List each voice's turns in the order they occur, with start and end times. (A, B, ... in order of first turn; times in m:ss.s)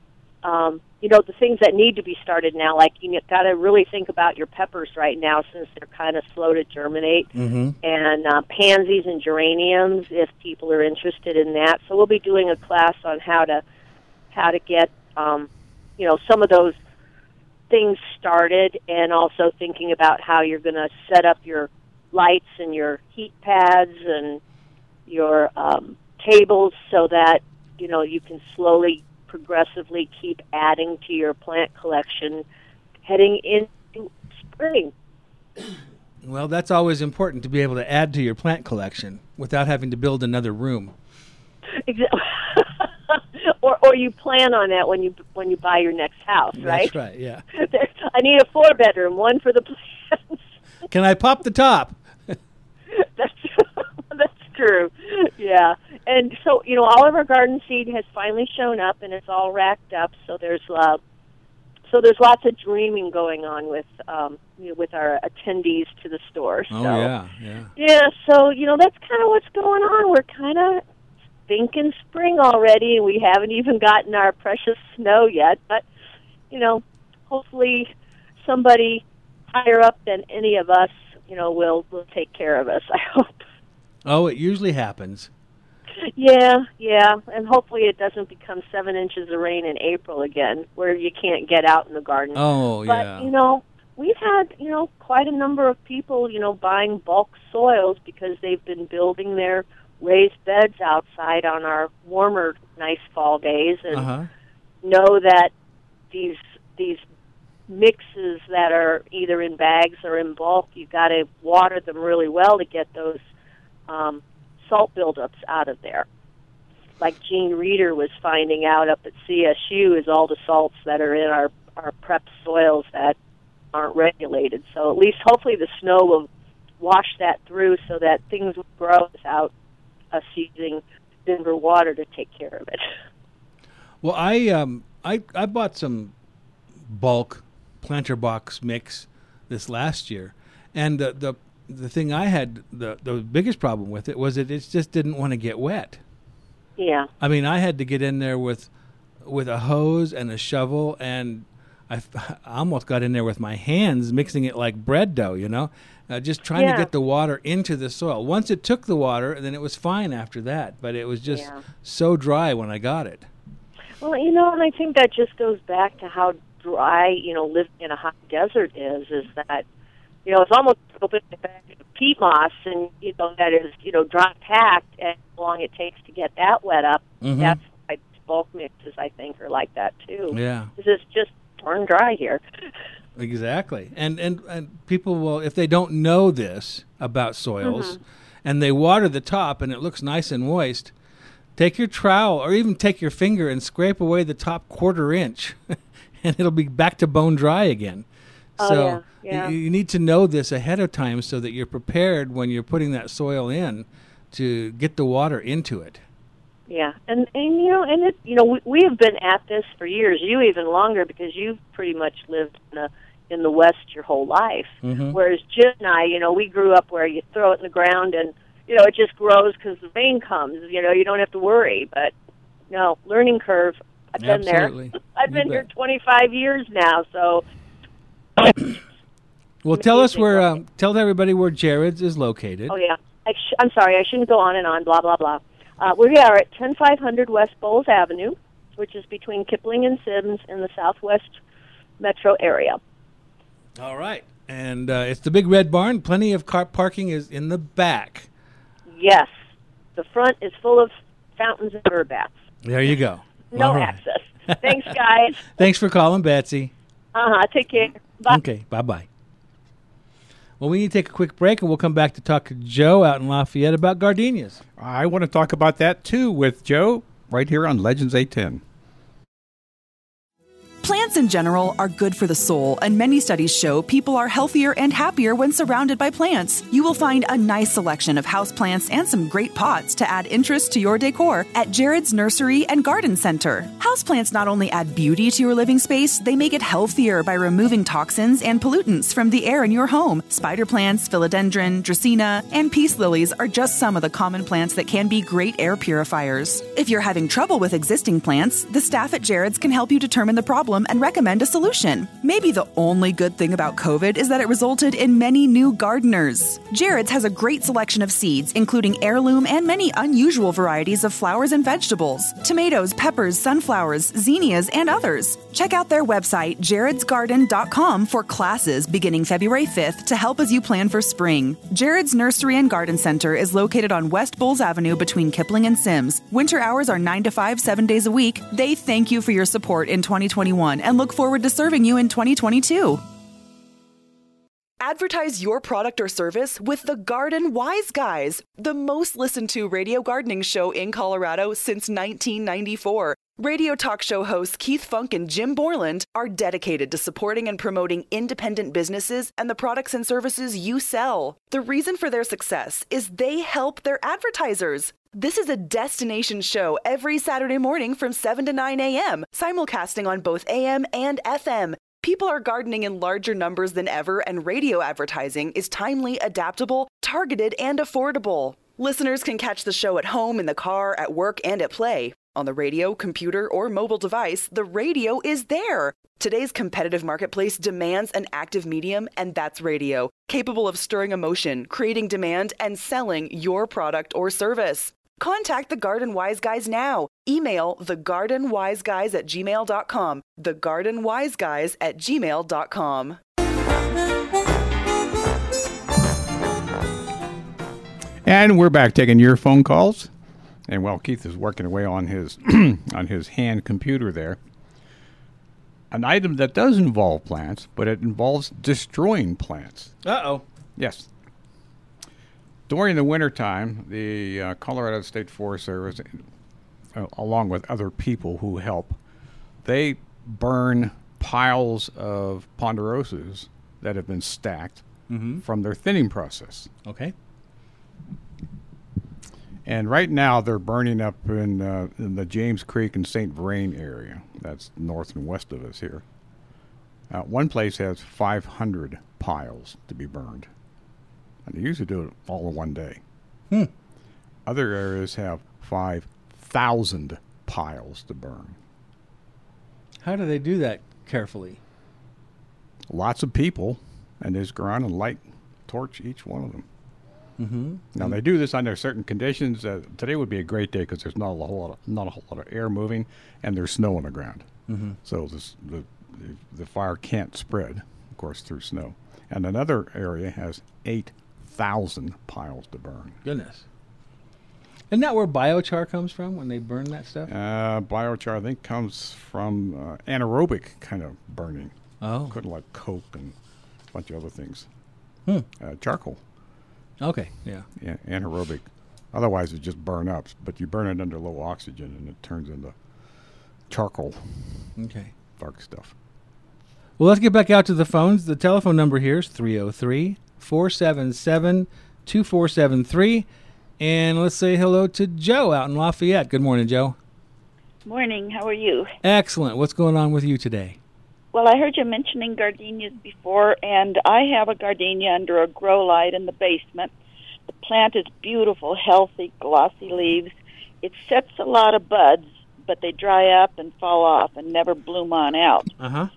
0:00.4-0:07.3 A
0:07.3-0:07.8 B
0:07.8-0:13.6 A
0:14.3-0:16.8 A
0:17.7-0:24.4 A
0:25.1-0:32.4 A
0:33.0-0:34.9 A
0:36.2-0:40.9 B
0:41.8-0:46.9 A
0:46.6-0:47.4 B
0:47.5-0:50.4 A
0:50.9-0:52.4 B
0:52.9-1:01.0 A
1:01.9-1:07.1 A
1:06.7-1:07.7 B
1:07.8-1:10.8 A
1:11.5-1:15.8 A
1:16.5-1:23.3 A
1:24.0-1:25.3 B
1:26.1-1:44.1 A
1:32.3-1:33.3 B
1:43.9-1:44.3 B
1:44.8-1:45.5 A
1:46.1-1:47.0 A
1:47.7-1:53.2 A
1:53.9-1:56.0 A
1:57.0-2:03.2 A
2:03.7-2:06.3 A
2:06.8-2:09.5 A
2:10.1-2:12.8 A
2:14.0-2:16.1 B
2:16.9-2:26.0 B
2:26.8-2:27.1 A
2:27.2-2:28.7 B
2:29.2-2:43.3 B
2:36.5-2:36.9 A
2:41.3-2:41.6 A
2:44.0-2:49.6 A
2:50.2-3:02.4 A
2:57.2-2:57.6 B
3:00.3-3:00.7 B
3:03.2-3:10.9 B
3:07.6-3:08.0 A
3:11.6-3:18.0 B
3:18.6-3:26.0 B
3:18.6-3:19.5 A
3:26.7-3:42.1 A
3:34.8-3:35.2 B
3:42.7-3:47.4 A
3:44.2-3:45.6 B
3:48.4-3:48.7 A
3:49.6-3:52.7 B
3:49.7-3:50.5 A
3:52.7-4:01.4 A
4:02.0-4:02.8 A
4:03.8-4:08.3 B
4:08.9-4:09.3 A
4:10.0-4:12.3 A
4:12.6-4:14.8 B
4:13.5-4:15.5 A
4:15.5-4:16.7 B
4:17.1-4:18.4 A
4:18.3-4:19.1 B
4:20.6-4:24.6 B
4:24.8-4:28.6 C
4:30.8-5:33.0 D
5:34.8-6:33.2 D
6:38.2-6:40.1 C
6:40.7-6:44.4 C
6:45.9-6:49.9 C
6:50.0-6:50.4 B
6:50.8-6:51.1 C
6:52.7-6:56.2 C
6:56.9-6:59.0 C
6:59.6-7:04.8 C
7:05.1-7:05.4 B
7:05.4-7:06.7 C
7:06.8-7:07.1 B
7:09.6-7:16.0 C
7:17.1-7:20.5 C
7:21.4-7:23.0 C
7:24.4-7:28.6 C
7:30.0-7:31.6 B
7:32.9-7:36.6 C
7:37.4-7:38.2 B
7:37.9-7:44.5 C
7:44.7-7:45.0 B
7:45.0-7:53.2 C
7:53.2-7:53.6 B
7:54.9-7:57.3 B
7:57.3-8:01.7 C
8:02.0-8:02.4 B
8:02.3-8:03.3 C
8:03.9-8:04.7 C
8:05.6-8:06.2 C
8:07.0-8:07.7 B
8:07.8-8:12.7 C
8:13.7-8:14.4 C
8:14.8-8:15.1 B
8:15.4-8:15.9 C
8:17.0-8:23.2 B
8:23.8-8:27.0 B
8:27.8-8:28.9 E
8:29.0-8:30.8 B
8:31.3-8:36.9 E
8:37.5-8:45.7 E
8:45.8-8:46.1 B